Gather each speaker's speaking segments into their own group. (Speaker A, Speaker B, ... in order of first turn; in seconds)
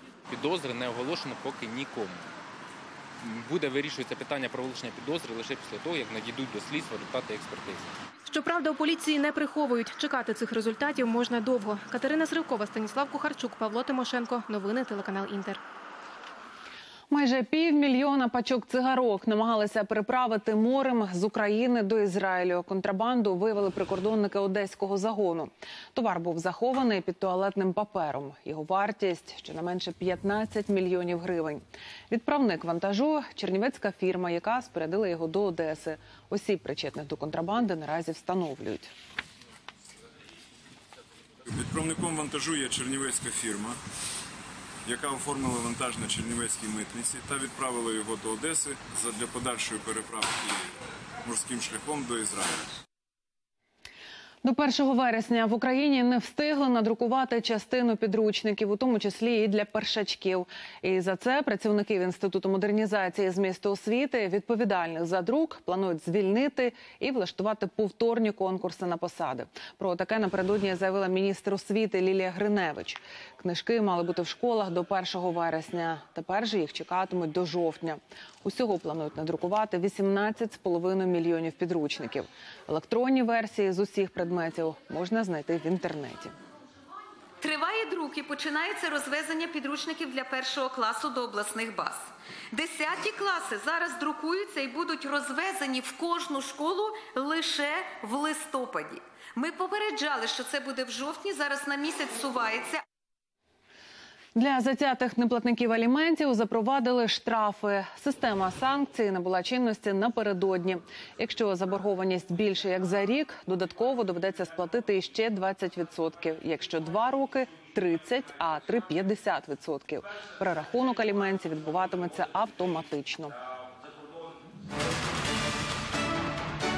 Speaker A: 0.3-2.3, 3.2-7.9
Speaker B: 8.3-15.6
Speaker C: 17.1-38.9, 54.4-86.3, 104.3-123.3
Speaker D: 41.5-43.7, 44.9-50.6, 51.2-52.7
Speaker E: 87.4-102.8